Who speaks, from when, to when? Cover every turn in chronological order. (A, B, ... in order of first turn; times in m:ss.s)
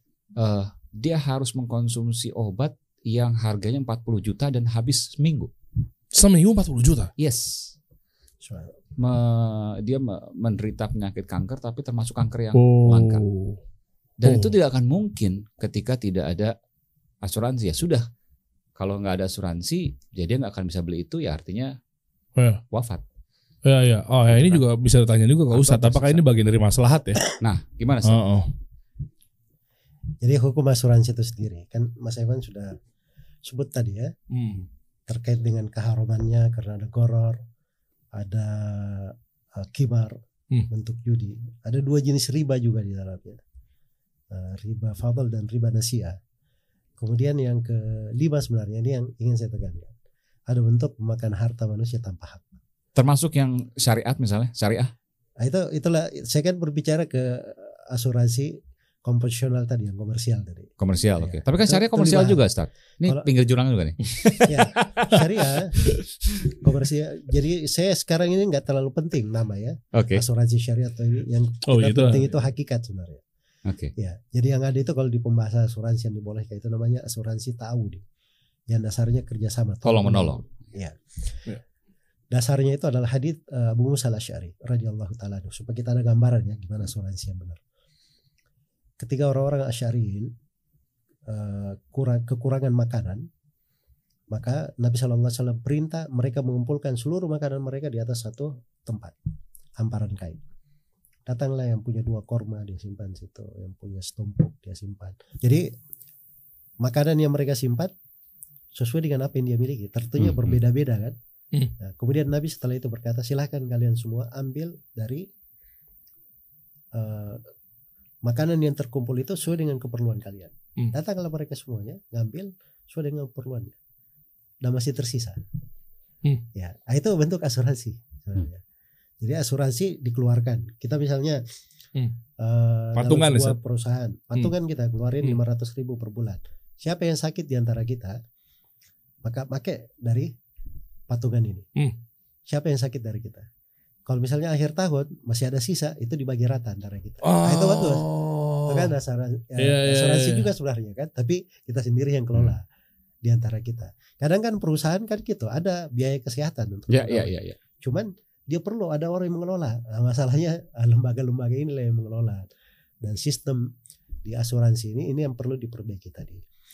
0:00.4-0:05.5 A
0:06.1-0:07.1 B
0:07.2-0:07.7 A
0:08.4-0:08.8 C
0:09.0-0:13.2 A
0:12.5-0:13.6 B
0:14.2-0:16.5 A
0:14.2-0:14.5 B
0:17.2-0:18.0 A
0:18.8-0:21.8 A
0:22.7-0:23.0 A
0:23.6-0:27.2 B
0:24.3-0:24.6 A
0:25.5-0:26.2 A
0:27.4-0:28.2 A
0:28.0-0:28.5 B
0:30.2-0:32.7 C
0:33.4-0:34.1 C
0:34.3-0:34.6 B
0:35.1-0:37.4 C
0:38.1-0:40.2 C
0:40.7-0:43.4 C
0:44.3-0:46.2 C
0:47.0-0:49.9 C
0:50.5-0:52.6 C
0:53.0-0:54.9 A
0:55.4-1:02.4 C
1:00.8-1:04.7 A
1:04.4-1:05.7 C
1:06.4-1:13.2 C
1:09.9-1:10.2 A
1:11.7-1:12.3 B
1:13.7-1:13.9 A
1:14.0-1:18.0 C
1:18.7-1:21.5 C
1:19.8-1:20.4 A
1:22.3-1:27.6 C
1:29.0-1:30.3 C
1:31.3-1:33.2 C
1:34.3-1:39.1 C
1:39.8-1:40.4 C
1:41.3-1:45.7 C
1:46.8-1:47.9 C
1:48.7-1:51.2 C
1:50.2-1:50.6 A
1:51.8-1:55.3 C
1:56.9-1:57.4 C
1:58.2-2:03.7 C
2:04.6-2:05.4 C
2:06.5-2:08.6 C
2:09.2-2:11.4 C
2:12.4-2:18.2 C
2:12.9-2:13.6 B
2:19.2-2:20.3 C
2:21.1-2:21.7 C
2:22.5-2:23.5 C
2:24.1-2:28.0 C
2:27.2-2:28.9 B
2:28.7-2:32.6 C
2:29.6-2:30.5 B
2:33.2-2:42.5 C
2:36.9-2:37.6 A
2:43.0-2:43.7 C
2:44.2-2:46.4 C